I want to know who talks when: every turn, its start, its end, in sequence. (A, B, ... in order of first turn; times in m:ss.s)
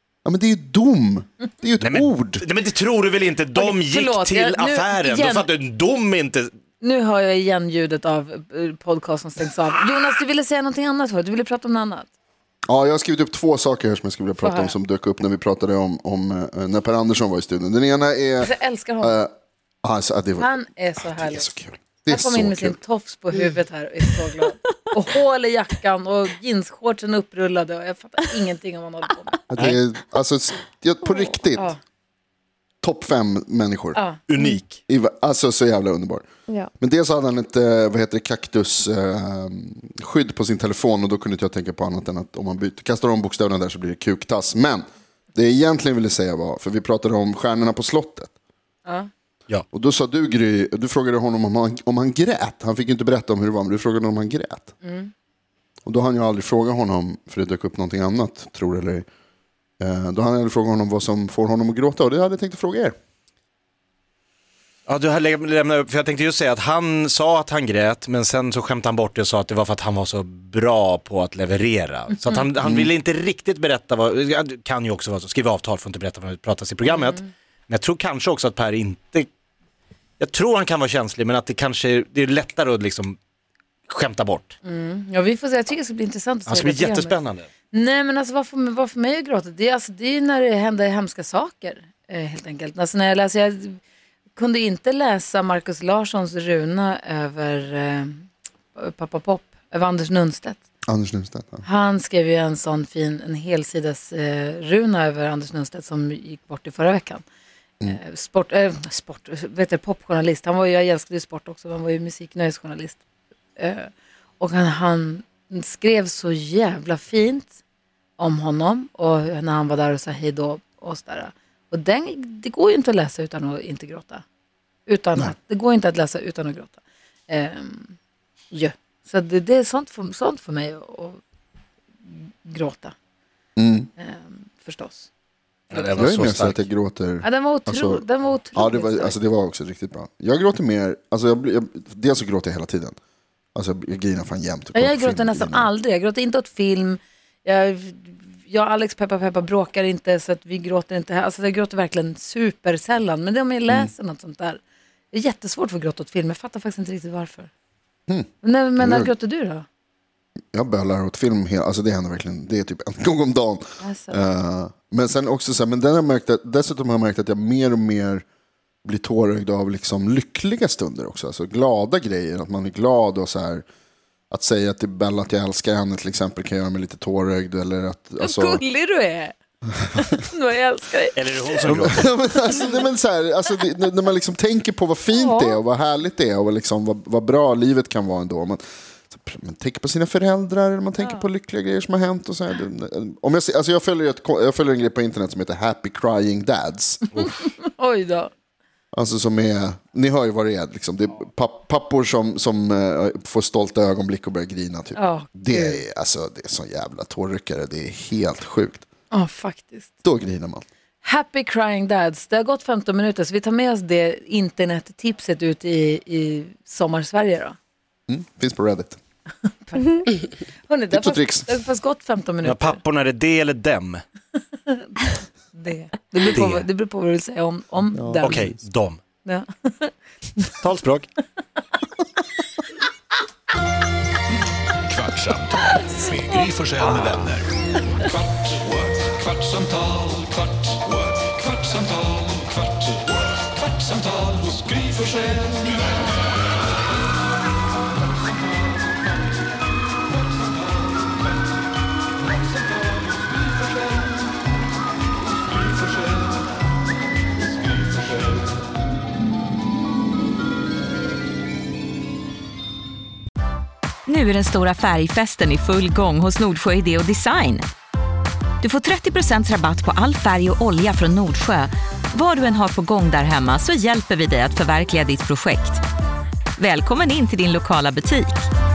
0:00.2-0:02.4 A
0:01.8-0:06.5 B
0:03.6-0:05.5 C
0:06.8-0:12.1 C
0:12.7-0:19.3 A
0:14.4-0:14.8 C
0:18.4-0:19.2 C
0:19.8-0:22.8 A
0:20.4-0:21.5 C
0:22.1-0:29.4 C
0:29.5-0:31.7 A
0:32.8-0:34.0 A
0:34.0-0:34.2 C
0:34.3-0:34.8 B
0:34.9-0:48.3 A
0:49.7-0:54.7 A
0:54.8-0:55.1 C
0:55.8-0:59.1 A
0:59.8-1:03.0 A
1:04.9-1:19.3 B
1:12.6-1:12.9 A
1:16.9-1:17.2 C
1:20.2-1:23.2 B
1:23.9-1:24.6 B
1:24.6-1:27.2 C
1:26.5-1:27.5 B
1:27.7-1:33.8 C
1:34.4-1:40.6 C
1:40.9-1:41.6 A
1:41.6-1:47.2 C
1:47.9-1:53.0 C
1:53.6-1:57.5 C
1:58.2-2:04.2 C
2:04.9-2:06.8 C
2:07.3-2:08.0 C
2:08.5-2:11.2 C
2:12.1-2:13.0 C
2:13.6-2:13.9 A
2:14.0-2:15.1 C
2:15.7-2:16.6 B
2:15.7-2:16.0 C
2:16.0-2:23.0 A
2:17.2-2:19.1 C
2:23.6-2:25.7 A
2:24.8-2:34.6 C
2:35.1-2:37.5 C
2:38.1-2:39.1 A
2:38.4-2:39.6 C
2:40.5-2:48.2 A
2:43.8-2:44.2 C
2:48.8-2:53.6 A
2:54.3-2:58.6 A
2:58.2-2:59.4 C
2:59.9-3:01.6 C
3:01.2-3:02.1 B
3:01.7-3:17.1 A
3:05.1-3:05.6 C
3:11.0-3:11.2 C
3:17.2-3:18.3 C
3:18.9-3:28.8 A
3:25.0-3:25.8 C
3:29.1-3:29.9 C
3:30.0-3:30.6 A
3:31.0-3:37.6 C
3:38.1-3:39.0 A
3:39.6-3:42.8 C
3:40.9-3:41.5 A
3:42.4-3:44.0 B
3:44.7-3:48.4 C
3:46.2-3:46.6 B
3:47.9-3:48.6 A
3:48.2-3:49.0 B
3:49.2-3:49.9 C
3:50.6-3:51.1 B
3:54.8-3:57.5 D
3:59.5-3:59.9 D
4:24.1-4:27.6 E
4:28.6-4:35.8 E
4:36.6-4:38.5 E